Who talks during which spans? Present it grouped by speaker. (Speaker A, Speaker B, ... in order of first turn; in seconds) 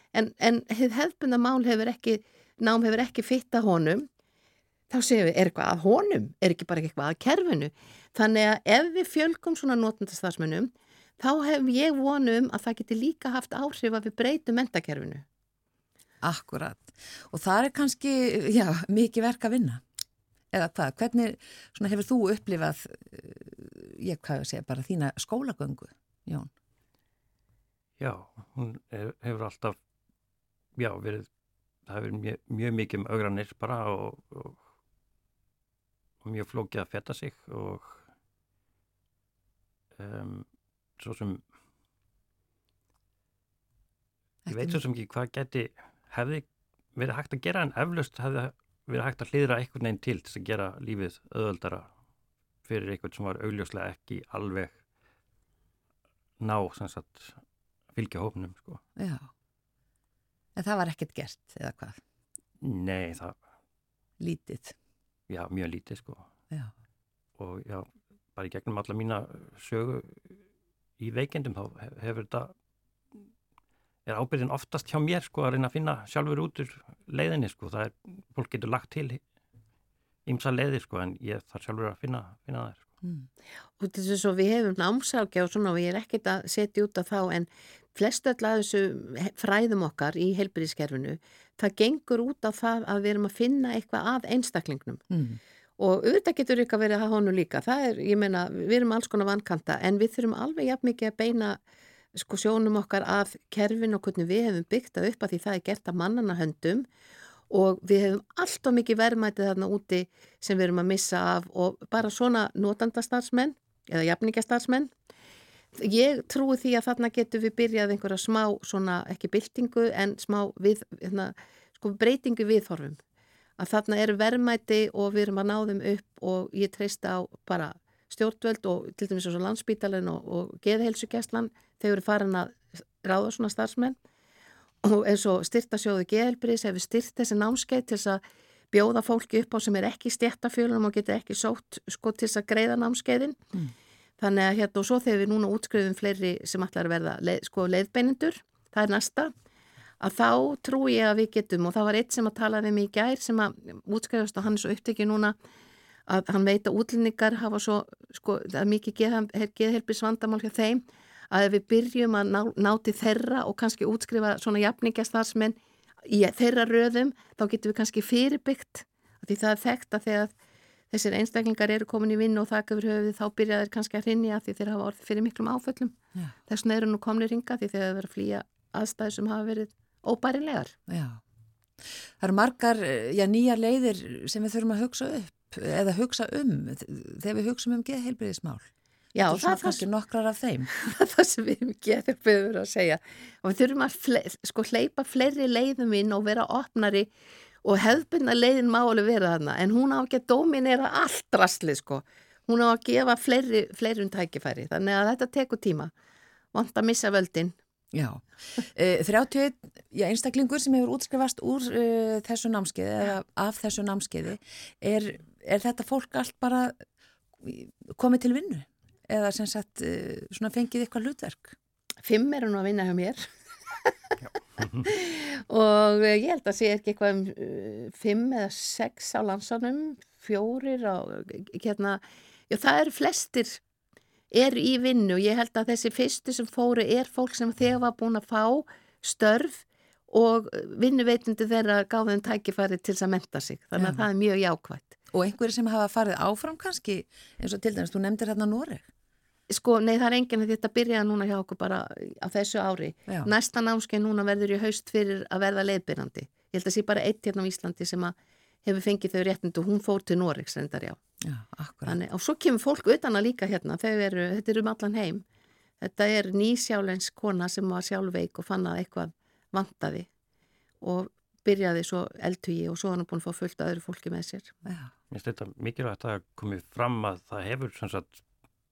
Speaker A: 0.1-4.1, 4.9-15.2, 83.8-95.0, 95.8-101.6, 102.2-106.9, 107.5-114.9, 115.8-123.0, 123.6-134.0, 134.8-138.2, 138.7-143.4, 144.2-149.3, 150.0-155.4, 156.1-170.3, 170.9-175.9, 176.5-180.7, 189.2-189.8, 190.8-197.1, 197.6-205.9, 206.5-207.6, 222.0-223.3, 224.8-233.6, 234.3-245.0, 249.5-261.0, 261.9-265.2, 265.8-270.1, 270.8-274.5
Speaker B: 16.2-19.8, 20.5-26.5, 44.5-44.8, 59.0-59.3, 60.6-62.0, 64.2-64.7, 95.1-95.4, 180.9-181.2, 182.2-188.7, 189.2-190.7, 207.9-216.8, 217.4-221.6, 243.8-244.1, 245.1-248.9, 253.1-253.3, 261.2-262.0
Speaker C: 28.0-29.8, 30.8-31.3, 31.9-34.6, 36.2-38.0, 40.0-40.5, 41.0-41.4, 44.5-51.9, 52.6-54.8, 56.4-57.4, 57.9-58.8, 62.6-63.4, 65.3-66.3, 67.4-70.4, 71.0-72.5, 74.1-79.2, 80.3-82.9, 275.1-278.2